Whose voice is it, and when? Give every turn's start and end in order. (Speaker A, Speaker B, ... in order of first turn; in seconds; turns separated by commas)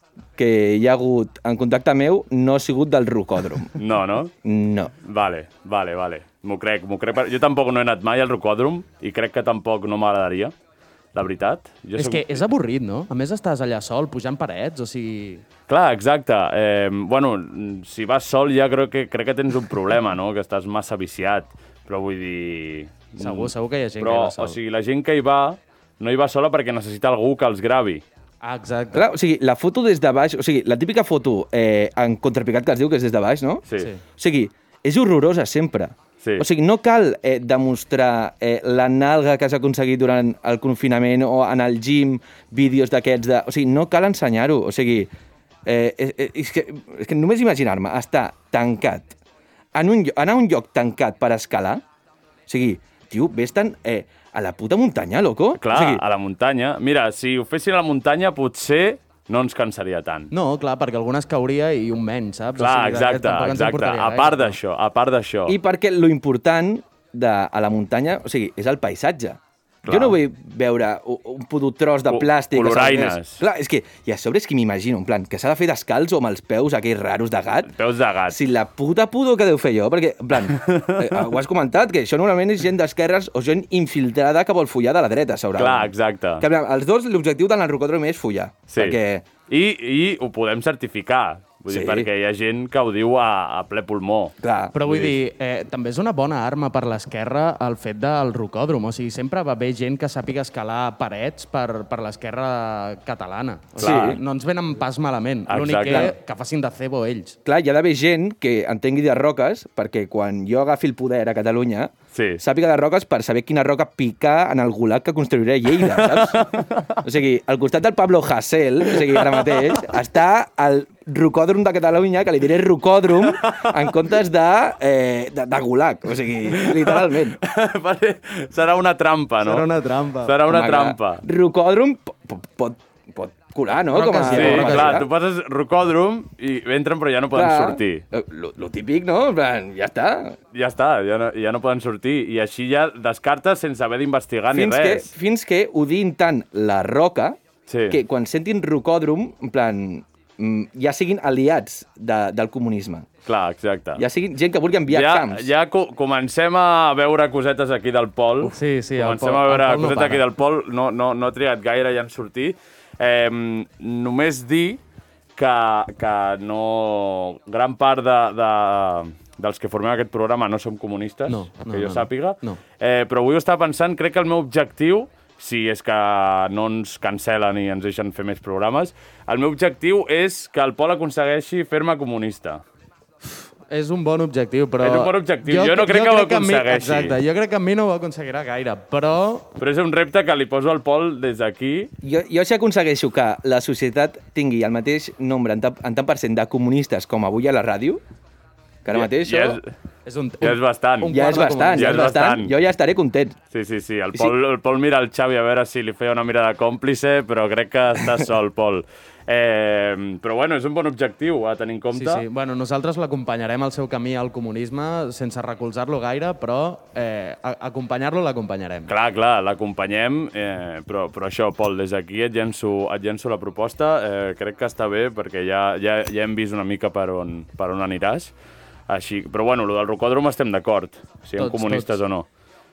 Speaker A: 0.3-3.7, Speaker B: 3.8-4.3, Speaker A: 4.4-4.9, Speaker B: 5.0-10.5, Speaker B: 11.1-12.4, Speaker C: 12.0-15.4, Speaker B: 15.7-28.0, Speaker C: 23.2-24.6, Speaker C: 28.4-29.1, Speaker A: 28.9-33.6, Speaker A: 34.2-45.1, Speaker A: 45.6-49.1, Speaker A: 49.7-51.8, Speaker A: 52.5-56.0, Speaker B: 55.6-60.3, Speaker C: 60.3-64.5, Speaker B: 62.5-65.6, Speaker A: 65.5-77.7, Speaker B: 69.8-70.2, Speaker B: 72.1-73.4, Speaker B: 77.6-78.4, Speaker A: 78.3-89.2, Speaker B: 85.6-86.5, Speaker B: 88.7-94.3, Speaker A: 91.7-92.1, Speaker A: 94.4-94.7, Speaker C: 94.7-107.4, Speaker B: 94.8-95.1, Speaker B: 103.8-104.2, Speaker A: 103.8-104.2, Speaker B: 105.5-106.1, Speaker A: 105.8-106.1, Speaker A: 107.4-127.4, Speaker B: 112.1-112.4, Speaker B: 115.9-116.9, Speaker B: 119.0-119.6, Speaker B: 123.4-123.7, Speaker B: 126.6-129.7, Speaker C: 129.4-130.3, Speaker B: 130.2-131.2, Speaker A: 130.4-135.1, Speaker C: 133.9-135.0, Speaker B: 134.2-138.0, Speaker A: 137.3-140.4, Speaker B: 140.5-145.1, Speaker A: 144.5-147.4, Speaker B: 147.7-148.0, Speaker A: 147.9-153.1, Speaker B: 153.2-154.0, Speaker A: 154.0-155.5, Speaker B: 154.9-164.8, Speaker C: 158.4-160.2, Speaker B: 165.4-182.6, Speaker C: 171.3-172.6, Speaker C: 183.7-189.5, Speaker B: 184.8-187.2, Speaker B: 189.6-191.9, Speaker A: 192.0-198.0, Speaker A: 198.8-199.6, Speaker B: 198.9-199.7, Speaker C: 200.1-202.1, Speaker B: 200.4-202.5, Speaker A: 201.1-203.3, Speaker B: 203.5-212.2, Speaker C: 211.9-218.9, Speaker B: 218.9-228.3, Speaker B: 228.9-232.2, Speaker C: 231.4-231.9